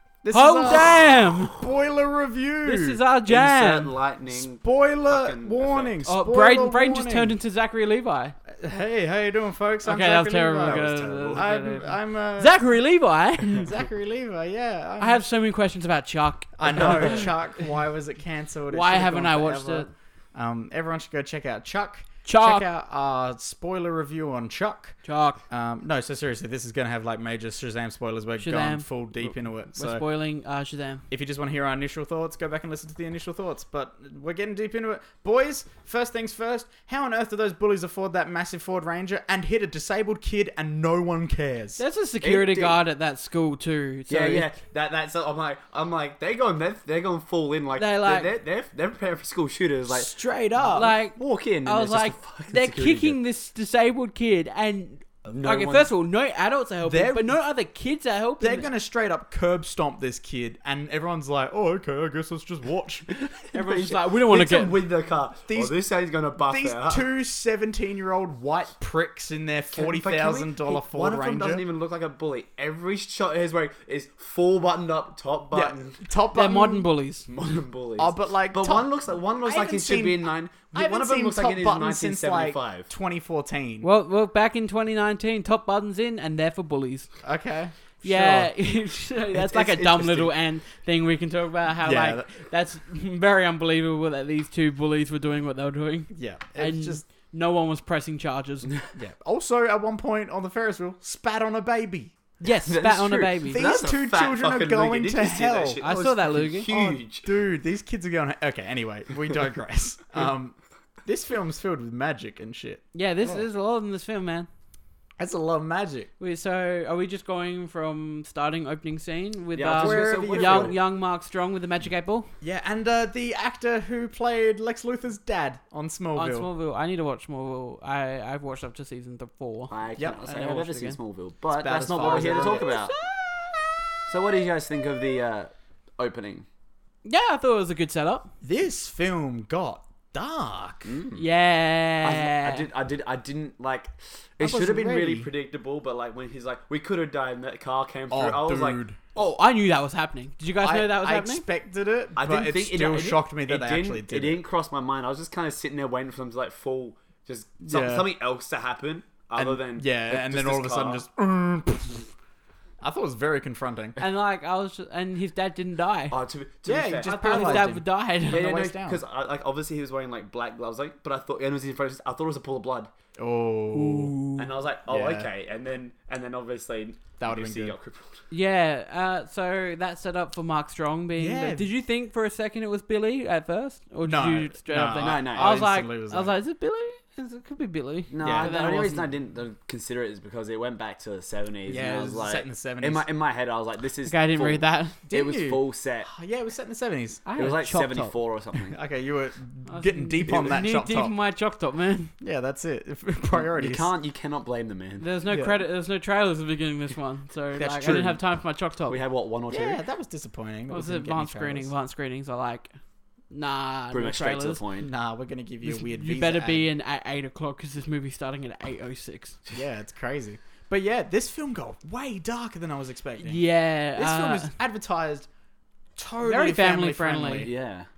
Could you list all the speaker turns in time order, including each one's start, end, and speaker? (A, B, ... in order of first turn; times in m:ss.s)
0:00.2-0:03.0 A
0:00.3-0:01.6 B
0:00.8-0:01.5 C
0:02.6-0:03.9 B
0:03.3-0:06.0 C
0:04.3-0:07.4 A
0:06.0-0:08.4 B
0:08.5-0:12.6 A
0:09.8-0:13.7 B
0:10.6-0:11.4 C
0:13.5-0:15.2 A
0:15.0-0:17.3 B
0:16.6-0:30.0 A
0:16.8-0:17.2 C
0:18.7-0:19.9 B
0:22.2-0:22.7 B
0:25.0-0:25.4 B
0:28.4-0:31.0 B
0:31.1-0:41.8 A
0:41.8-0:44.5 B
0:42.2-0:42.8 C
0:44.1-0:50.2 C
0:47.8-0:48.3 B
0:49.9-0:51.0 A
0:50.6-0:58.7 B
0:50.8-0:53.2 C
0:55.3-0:55.9 C
0:56.8-0:57.4 A
0:58.4-1:03.1 A
1:03.1-1:07.0 C
1:03.5-1:04.8 B
1:05.5-1:05.8 A
1:06.4-1:11.6 A
1:09.7-1:16.0 C
1:15.5-1:16.9 A
1:16.3-1:17.3 B
1:17.3-1:22.9 C
1:18.0-1:23.9 A
1:23.8-1:27.1 B
1:27.2-1:28.5 A
1:28.0-1:38.7 B
1:29.3-1:30.3 C
1:31.8-1:32.3 A
1:36.1-1:37.1 A
1:39.0-1:42.2 A
1:42.4-1:43.7 B
1:42.6-1:47.3 C
1:43.5-1:45.8 A
1:45.8-1:46.7 B
1:46.7-1:52.8 A
1:52.9-1:54.5 B
1:55.2-1:56.1 A
1:56.2-2:02.3 B
1:59.6-2:00.8 C
1:59.7-2:00.8 A
2:02.4-2:06.5 A
2:06.2-2:11.0 B
2:09.7-2:12.9 C
2:11.5-2:12.8 A
2:12.0-2:13.4 B
2:14.1-2:16.5 C
2:17.0-2:18.3 B
2:18.4-2:20.9 A
2:20.9-2:21.3 C
2:21.2-2:22.6 B
2:22.0-2:29.3 C
2:24.4-2:25.3 A
2:28.1-2:29.0 A
2:29.2-2:31.4 B
2:30.6-2:34.4 A
2:32.2-2:41.0 C
2:37.7-2:38.1 A
2:39.4-2:42.1 A
2:42.8-2:44.0 A
2:44.0-2:46.2 B
2:46.1-2:47.7 C
2:46.7-2:49.0 A
2:47.0-2:48.6 B
2:48.3-2:52.9 C
2:53.2-2:54.2 A
2:53.7-2:54.5 B
2:54.4-2:58.2 C
2:54.9-2:55.3 A
2:57.2-2:57.8 A
2:58.3-3:09.1 B
3:01.2-3:01.7 A
3:04.0-3:06.3 A
3:05.0-3:05.6 C
3:08.1-3:16.1 C
3:08.2-3:08.5 A
3:11.7-3:13.0 A
3:14.1-3:15.0 B
3:15.1-3:17.2 A
3:17.2-3:18.2 B
3:17.4-3:18.8 C
3:18.6-3:21.1 A
3:19.7-3:22.1 B
3:20.3-3:20.6 C
3:22.2-3:23.9 A
3:23.3-3:25.1 C
3:25.0-3:29.0 B
3:25.3-3:25.6 A
3:27.6-3:28.2 A
3:28.9-3:29.8 C
3:29.5-3:31.7 A
3:30.7-3:32.7 B
3:33.3-3:34.6 B
3:33.9-3:34.9 C
3:34.8-3:36.7 A
3:35.6-3:39.4 B
3:39.5-3:43.4 A
3:43.2-3:44.5 B
3:44.0-3:45.3 A
3:46.0-3:47.5 A
3:46.2-3:47.5 B
3:47.4-3:47.9 C